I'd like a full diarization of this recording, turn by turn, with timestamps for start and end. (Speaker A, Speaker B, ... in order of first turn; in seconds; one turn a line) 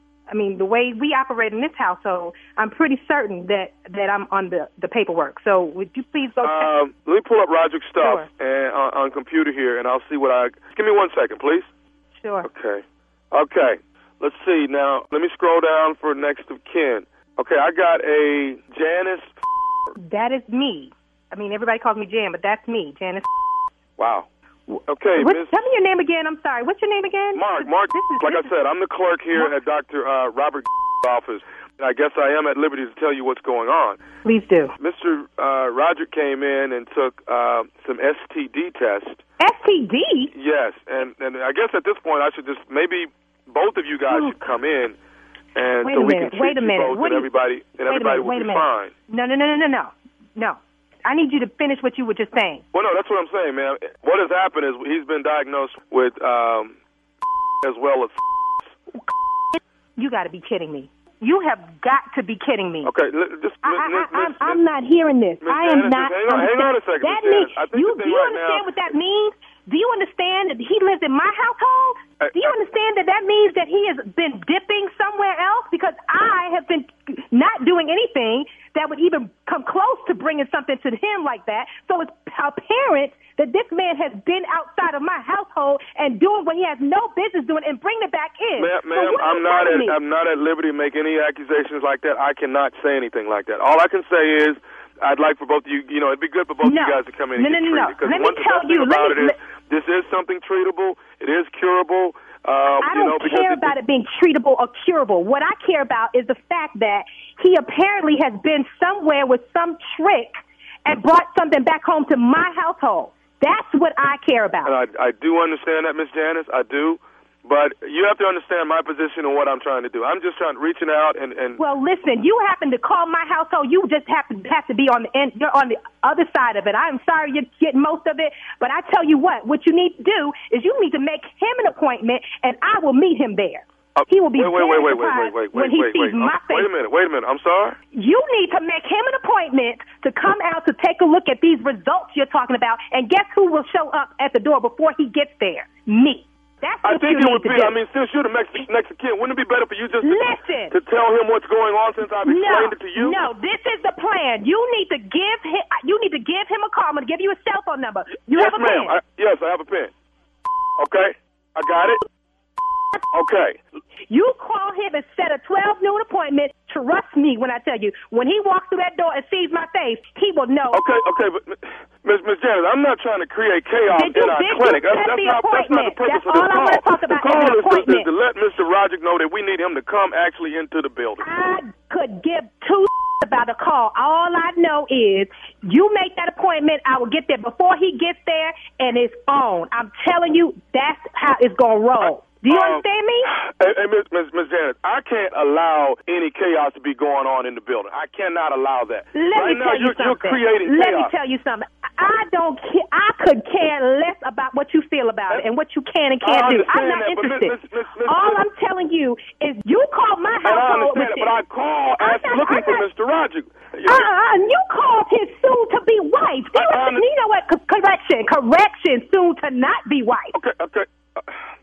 Speaker A: 0.3-6.7
Speaker B: 6.4-11.7
Speaker A: 8.0-8.3
Speaker A: 12.2-12.5
Speaker B: 12.4-19.3
Speaker A: 20.0-23.3
Speaker B: 24.0-25.6
Speaker A: 25.1-28.5
Speaker B: 27.3-34.0
Speaker A: 34.2-34.7
Speaker B: 34.8-39.2
Speaker A: 39.4-40.3
Speaker B: 40.3-45.0
Speaker A: 44.1-44.4
Speaker B: 45.5-48.9
Speaker A: 45.8-47.3
Speaker A: 47.8-52.6
Speaker B: 52.7-56.8
Speaker B: 57.6-58.7
Speaker A: 58.9-62.9
Speaker B: 62.8-64.6
Speaker A: 63.6-90.0
Speaker B: 65.4-68.6
Speaker B: 72.2-72.5
Speaker B: 88.6-103.7
Speaker A: 96.6-99.3
Speaker A: 102.8-114.8
Speaker B: 114.6-121.6
Speaker A: 121.6-136.7
Speaker B: 133.9-137.8
Speaker A: 137.9-147.8
Speaker B: 146.8-153.2
Speaker A: 150.0-150.8
Speaker A: 152.2-159.0
Speaker B: 158.3-159.9
Speaker B: 160.8-162.0
Speaker B: 163.1-163.6
Speaker A: 164.1-170.8
Speaker B: 170.7-181.2
Speaker A: 173.9-178.1
Speaker A: 181.2-193.3
Speaker B: 192.0-201.1
Speaker A: 199.1-211.4
Speaker B: 206.2-208.4
Speaker B: 210.4-214.1
Speaker A: 212.0-212.8
Speaker A: 213.8-220.3
Speaker B: 216.5-217.0
Speaker B: 220.3-221.4